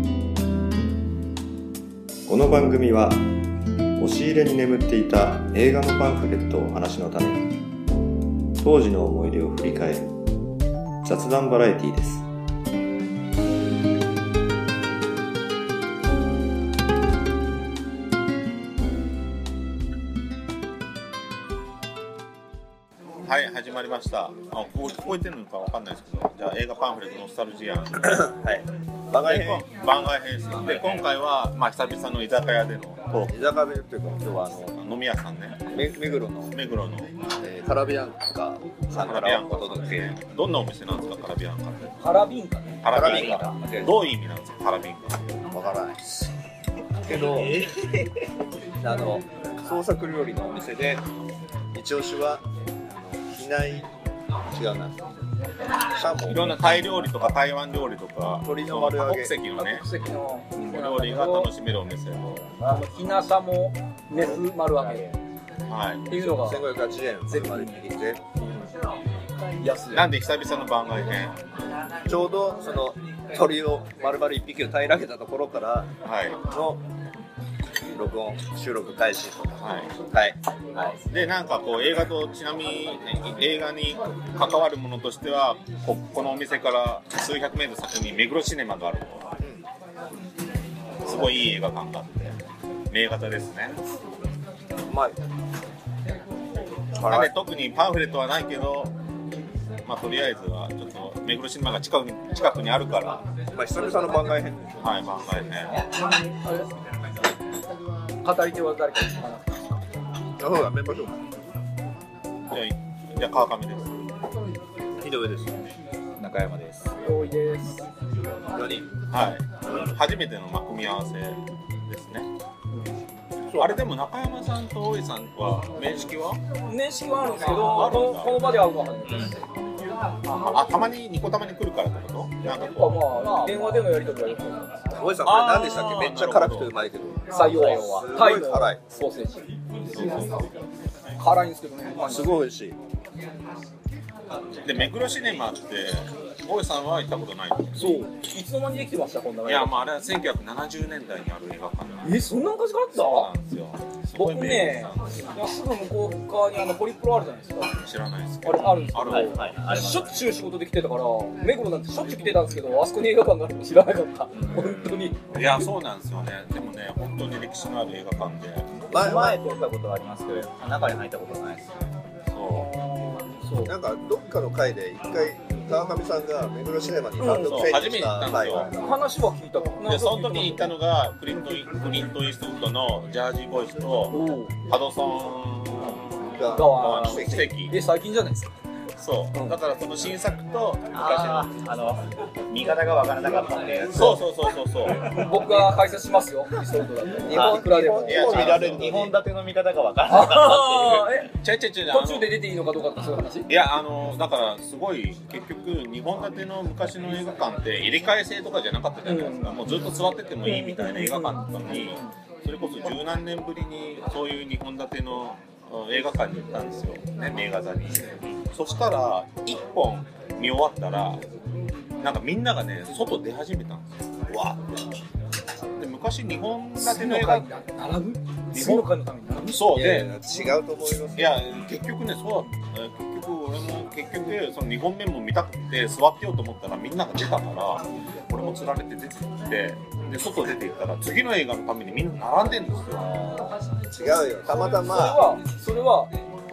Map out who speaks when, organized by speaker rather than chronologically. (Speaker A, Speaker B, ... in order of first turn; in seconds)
Speaker A: 2.3-3.2, 4.0-7.5, 8.6-10.1, 11.0-12.3
Speaker B: 23.2-28.3, 29.2-33.3, 34.8-35.6, 36.5-37.1, 39.0-41.9, 42.8-45.2, 56.2-59.9, 60.6-62.4, 65.7-66.3, 69.9-71.4, 76.0-76.4, 79.6-79.9, 81.1-89.3, 91.0-92.4, 92.9-93.8, 97.0-98.9, 99.8-103.2, 104.8-105.8, 112.5-114.0, 119.1-122.3, 123.6-126.4, 127.4-128.5, 130.3-133.3, 135.2-136.7, 139.9-140.5, 144.6-148.1, 149.4-152.2, 152.9-155.2, 157.7-159.4, 165.3-168.7, 172.3-172.7, 177.2-178.7, 179.8-186.1, 186.7-187.7, 189.0-191.5, 193.9-195.1, 197.9-198.9, 201.4-202.3, 203.5-221.2, 222.0-224.8, 225.8-227.5, 228.5-228.9, 229.5-230.1, 231.2-243.1
Speaker C: 28.0-29.6, 33.3-34.8, 35.7-36.5, 37.4-40.2, 42.9-44.0, 45.5-46.2, 47.1-47.7, 48.8-51.0, 51.7-52.4, 53.1-53.9, 54.5-55.0, 55.9-56.8, 58.4-59.3, 66.2-68.7, 72.1-75.9, 76.5-76.8, 77.9-79.6, 80.1-81.0, 94.9-95.2, 97.0-97.3, 103.5-104.8, 110.4-111.1, 115.0-115.7, 118.5-118.9, 123.5-123.8, 134.9-138.8, 142.0-142.8, 168.9-169.4, 173.6-178.7, 186.3-187.4, 197.2-199.2, 229.7-231.4, 243.9-245.2
Speaker D: 42.0-42.9, 59.5-61.5, 62.6-65.2, 66.1-66.7, 67.3-67.8, 69.6-70.1, 106.4-106.7, 108.2-109.6, 117.0-117.9, 126.7-129.4, 132.5-134.7, 137.3-139.4, 141.2-142.4, 147.7-149.7, 152.0-153.3, 154.2-157.7, 158.4-165.2, 172.5-173.8, 177.2-177.8, 178.7-180.8, 184.1-184.6, 186.5-188.5, 195.0-198.5, 200.1-201.3, 201.9-203.5, 209.1-209.6, 210.4-212.1, 226.8-229.9, 244.4-246.1
Speaker E: 43.0-43.6, 47.1-48.1, 116.2-116.9, 137.7-138.0, 158.9-160.2, 164.3-165.0, 168.9-171.7, 190.9-194.2, 195.4-195.7, 197.3-201.2, 243.0-243.6